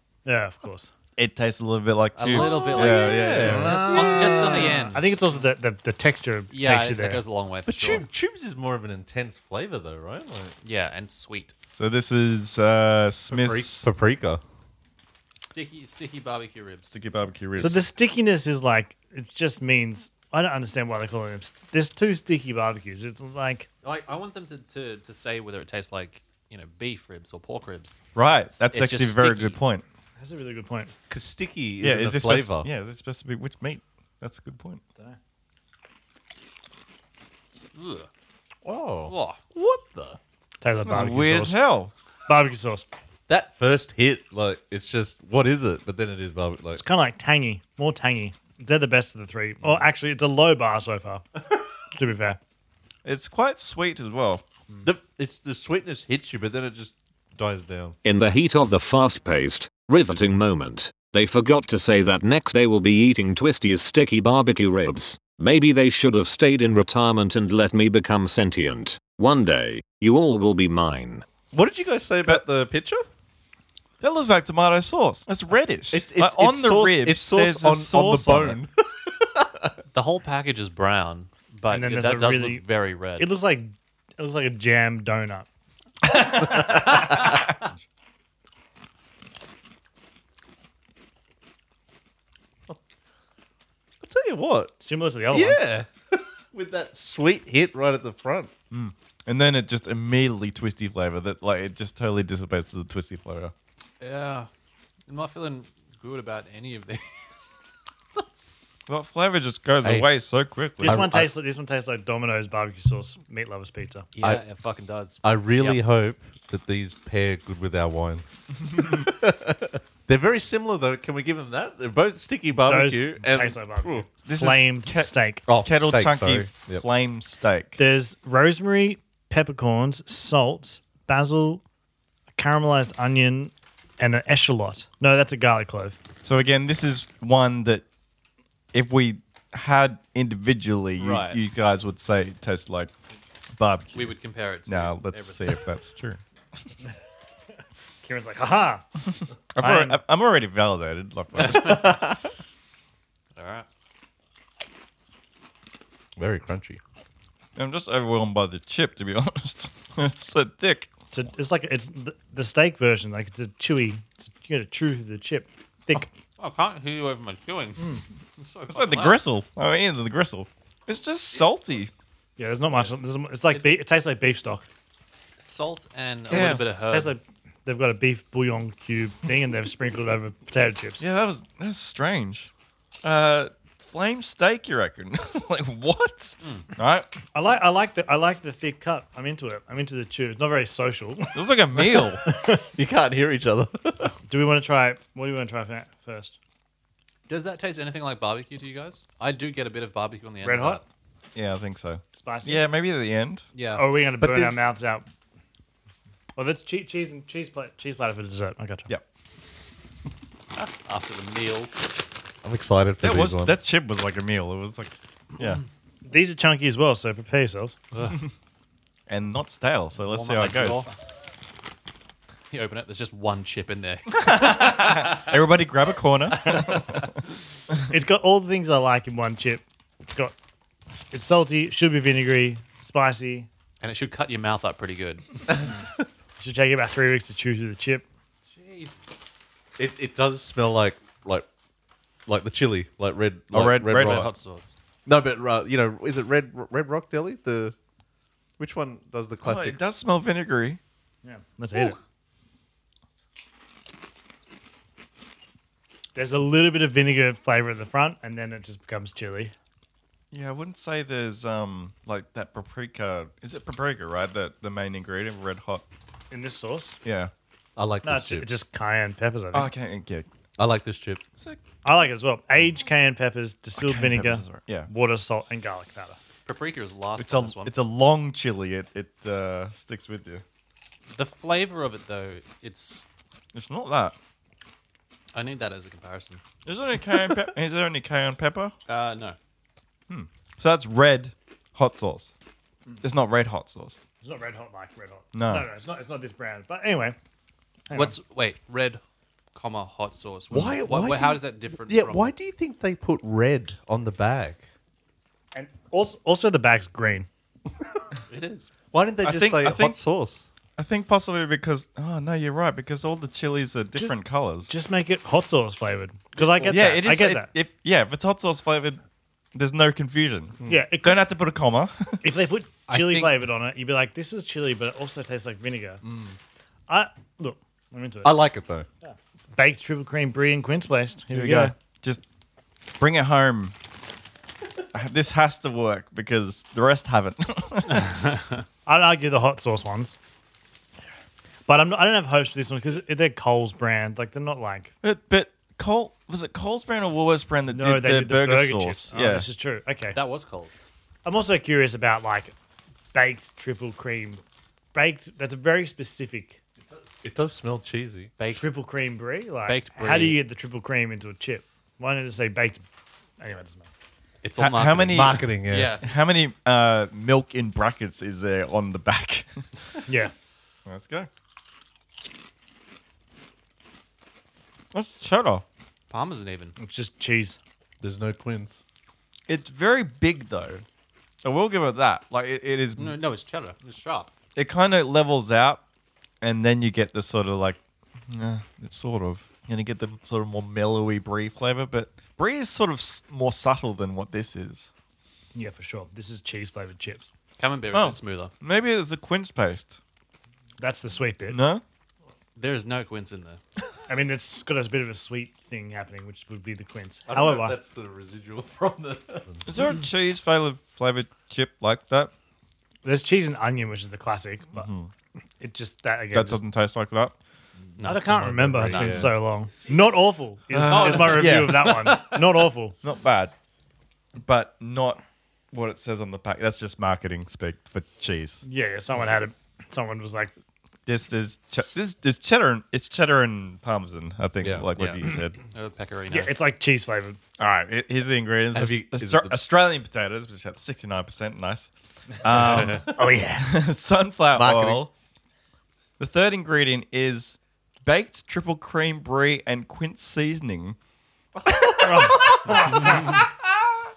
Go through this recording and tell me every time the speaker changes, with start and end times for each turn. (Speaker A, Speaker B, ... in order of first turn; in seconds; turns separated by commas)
Speaker A: 0.2-0.9, Speaker B: 1.2-4.1, Speaker C: 2.2-5.4, Speaker D: 2.3-4.8, Speaker A: 3.0-7.2, Speaker C: 6.5-8.1, Speaker D: 7.7-10.6, Speaker C: 10.6-11.6, Speaker B: 11.8-13.9, Speaker D: 13.3-14.4, Speaker C: 15.4-16.9, Speaker B: 16.9-17.8, Speaker A: 17.6-23.7, Speaker C: 23.8-28.0, Speaker B: 28.1-29.8, Speaker C: 28.6-29.6, Speaker A: 30.2-30.9, Speaker D: 31.1-32.7, Speaker B: 31.8-34.8, Speaker C: 37.8-38.1, Speaker D: 38.6-40.2, Speaker C: 39.1-39.4, Speaker A: 40.6-41.6, Speaker B: 40.9-41.9, Speaker A: 42.3-42.9, Speaker D: 43.3-46.8, Speaker A: 46.8-51.2, Speaker A: 51.9-52.4, Speaker B: 53.0-54.4, Speaker D: 54.8-58.0, Speaker E: 58.0-71.2, Speaker D: 71.5-73.1, Speaker B: 74.0-78.6, Speaker D: 75.9-79.7, Speaker C: 79.9-83.3, Speaker A: 81.7-82.6, Speaker A: 83.2-85.5, Speaker B: 86.1-86.7, Speaker D: 86.4-87.2, Speaker D: 94.0-94.7, Speaker A: 94.8-95.6, Speaker D: 95.3-98.5, Speaker B: 98.7-103.5, Speaker C: 104.0-104.5, Speaker C: 105.1-107.5, Speaker B: 108.9-111.1, Speaker A: 110.8-114.1, Speaker D: 110.8-111.3, Speaker C: 114.2-115.8, Speaker D: 115.2-124.1, Speaker B: 118.7-119.0, Speaker A: 122.6-125.4, Speaker B: 124.2-127.8, Speaker D: 125.5-126.8, Speaker A: 127.8-131.6, Speaker A: 132.3-136.0, Speaker B: 136.2-137.8, Speaker B: 138.7-142.9, Speaker C: 141.0-141.4, Speaker B: 143.6-144.2, Speaker C: 143.9-145.5, Speaker B: 144.7-146.2, Speaker A: 148.0-148.8, Speaker B: 149.6-152.3, Speaker A: 149.6-150.0, Speaker C: 151.4-152.0, Speaker C: 153.4-153.7, Speaker D: 156.2-156.8, Speaker B: 157.6-160.9, Speaker A: 161.1-166.1, Speaker C: 166.4-169.2, Speaker B: 168.7-171.9, Speaker A: 172.4-174.7, Speaker C: 173.5-173.8, Speaker C: 175.4-177.2, Speaker B: 176.3-176.6, Speaker A: 176.9-181.1, Speaker B: 181.0-182.5, Speaker B: 183.0-187.1, Speaker A: 187.3-192.7, Speaker B: 191.3-192.2, Speaker D: 192.8-194.2, Speaker A: 194.3-196.4, Speaker C: 197.3-200.8, Speaker A: 200.4-200.8, Speaker B: 201.3-203.4, Speaker A: 202.2-202.7, Speaker C: 203.6-203.8, Speaker A: 203.8-205.1, Speaker D: 204.2-204.6, Speaker A: 206.4-208.9, Speaker C: 210.6-211.7, Speaker D: 212.4-213.6, Speaker B: 213.0-215.6, Speaker A: 216.1-217.8, Speaker B: 219.1-220.8, Speaker C: 220.1-220.9, Speaker C: 222.5-225.3, Speaker B: 224.2-227.0, Speaker C: 226.4-226.8, Speaker A: 227.9-230.3, Speaker A: 231.1-233.5, Speaker C: 233.8-235.2, Speaker A: 236.4-238.1, Speaker C: 238.5-239.2, Speaker D: 239.8-241.5, Speaker D: 242.3-244.3, Speaker B: 243.5-244.3, Speaker C: 243.9-244.7, Speaker D: 245.1-247.8, Speaker D: 248.6-249.8, Speaker B: 249.4-250.8, Speaker A: 251.2-252.0, Speaker A: 256.1-259.5, Speaker B: 260.3-265.8, Speaker A: 266.3-267.0, Speaker B: 267.1-267.3, Speaker D: 267.8-268.5, Speaker A: 268.0-269.7, Speaker B: 269.5-270.3, Speaker D: 270.6-271.2, Speaker A: 271.8-276.2, Speaker B: 273.8-274.9, Speaker C: 276.5-277.8, Speaker B: 277.2-280.4, Speaker C: 281.1-283.1, Speaker B: 283.5-284.2, Speaker C: 285.3-286.4, Speaker B: 286.7-288.7, Speaker C: 288.9-289.4, Speaker B: 290.1-292.3, Speaker B: 293.0-294.0, Speaker A: 294.2-297.2, Speaker B: 295.3-295.7, Speaker A: 297.9-298.1, Speaker C: 297.9-299.0, Speaker C: 299.6-302.3, Speaker D: 300.5-304.6, Speaker A: 305.5-307.3, Speaker C: 308.3-308.7, Speaker D: 308.9-310.4, Speaker B: 309.2-310.0, Speaker B: 310.8-314.7, Speaker A: 314.7-317.5, Speaker B: 316.7-319.0, Speaker B: 319.5-322.3, Speaker A: 320.7-321.3, Speaker A: 322.2-326.0, Speaker C: 322.9-323.4, Speaker D: 326.0-326.4, Speaker A: 326.9-328.4, Speaker D: 328.2-328.9, Speaker A: 329.0-331.7, Speaker B: 331.3-332.2, Speaker B: 333.0-333.8, Speaker B: 334.9-338.2, Speaker A: 338.9-340.2, Speaker A: 341.7-344.9, Speaker B: 345.0-349.5, Speaker A: 347.7-350.2, Speaker C: 350.1-350.8, Speaker A: 351.2-352.5, Speaker A: 353.1-354.4, Speaker A: 354.9-356.6, Speaker D: 357.2-358.3, Speaker C: 358.4-358.7, Speaker A: 358.5-362.8, Speaker C: 359.7-360.4, Speaker A: 363.4-363.9, Speaker C: 364.4-366.1, Speaker B: 364.6-365.4, Speaker D: 365.1-365.9, Speaker B: 366.0-370.1, Speaker A: 370.1-370.3, Speaker B: 370.9-371.3, Speaker B: 374.9-375.6, Speaker C: 376.1-376.8, Speaker A: 376.8-377.6, Speaker D: 378.0-378.8, Speaker B: 379.5-380.9, Speaker B: 381.4-383.2, Speaker C: 383.0-384.3, Speaker B: 384.6-385.8, Speaker B: 386.4-387.8, Speaker B: 388.3-394.9, Speaker A: 395.6-397.3, Speaker C: 397.6-398.5, Speaker B: 397.9-400.0, Speaker A: 400.8-401.6, Speaker B: 401.5-401.8, Speaker C: 402.6-403.6, Speaker A: 404.1-407.8, Speaker D: 407.3-409.7, Speaker B: 409.7-412.3, Speaker A: 413.0-414.9, Speaker B: 414.7-415.1, Speaker A: 415.6-416.6, Speaker B: 416.3-417.3, Speaker C: 418.0-419.4, Speaker A: 418.0-423.0, Speaker D: 418.8-419.3, Speaker B: 420.7-422.2, Speaker C: 420.8-422.5, Speaker B: 423.0-423.5, Speaker B: 424.4-425.2, Speaker B: 425.7-428.6, Speaker A: 428.6-430.5, Speaker B: 431.1-435.6, Speaker D: 434.6-434.9, Speaker C: 434.9-436.5, Speaker A: 436.3-437.4, Speaker B: 437.6-445.1, Speaker D: 438.7-439.6, Speaker A: 442.5-443.8, Speaker D: 444.6-445.1, Speaker B: 446.2-451.0, Speaker B: 451.6-453.7, Speaker A: 452.0-453.3